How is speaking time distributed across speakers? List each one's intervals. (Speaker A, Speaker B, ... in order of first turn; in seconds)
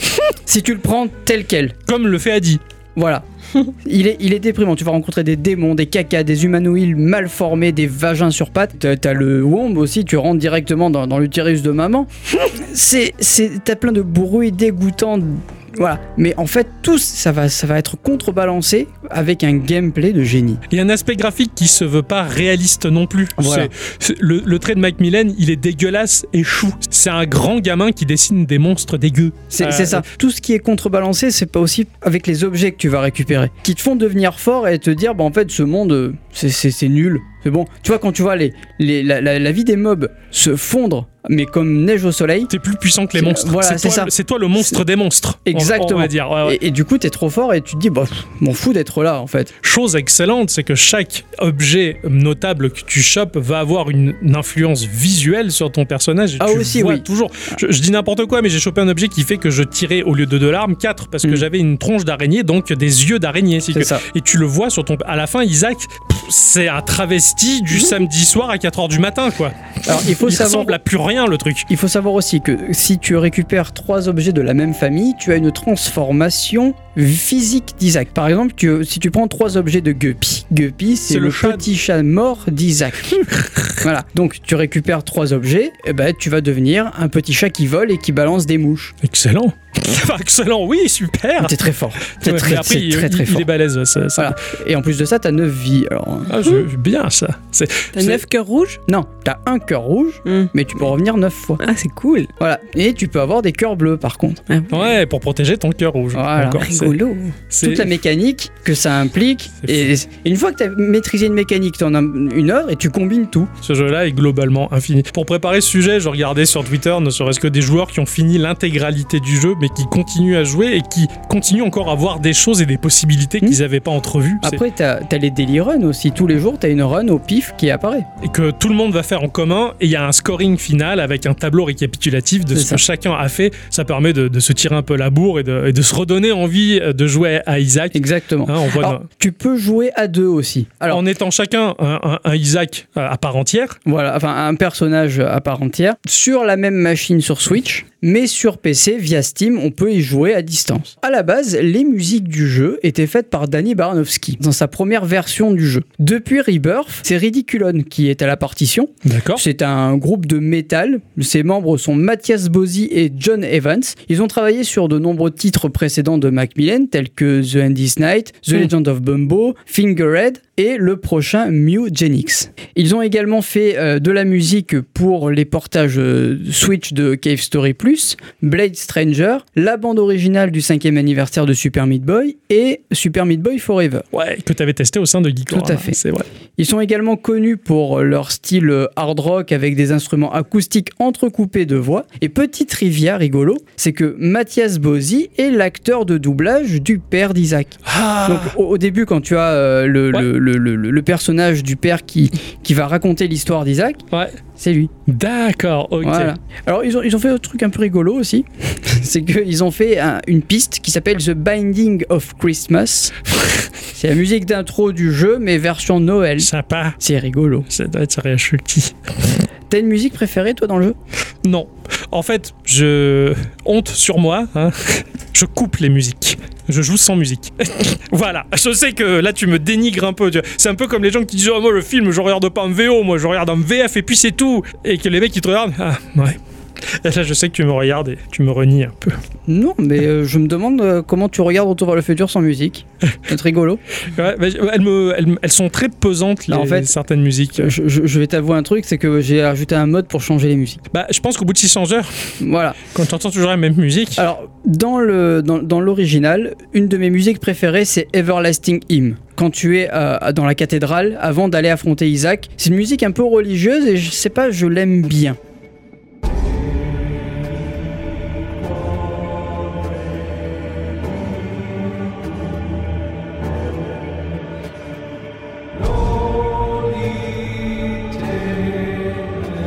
Speaker A: 0.5-1.8, 3.0-20.6, 23.4-23.7, 29.5-42.5, 43.2-44.8, 45.5-49.5, 56.4-57.0, 63.7-64.0, 69.8-70.8, 71.7-83.2, 83.8-89.0, 91.4-93.5, 94.2-96.5, 98.9-101.6, 102.4-104.4, 106.1-106.9, 107.6-113.5, 124.4-128.1, 132.5-132.8, 137.9-141.0, 143.9-184.1, 185.5-186.0, 186.6-204.0, 204.6-204.9, 206.0-213.2, 213.9-217.7, 219.7-221.0, 239.5-243.8, 246.5-246.9, 247.6-250.8, 252.4-252.8, 254.2-265.4
Speaker B: 1.9-2.6, 20.7-30.1, 42.5-46.6, 49.6-71.7, 81.1-81.6, 83.2-83.8, 89.0-94.4, 96.3-98.2, 104.7-106.9, 107.5-107.9, 109.6-109.9, 113.6-124.6, 128.2-139.1, 140.9-143.8, 159.0-159.4, 184.1-186.3, 197.9-198.6, 205.1-206.3, 216.4-217.0, 217.7-219.4, 221.4-239.2, 244.1-247.7, 250.9-252.3, 252.9-254.2
Speaker C: 97.9-98.8, 100.2-100.5, 101.6-102.3, 104.5-105.0, 106.6-107.3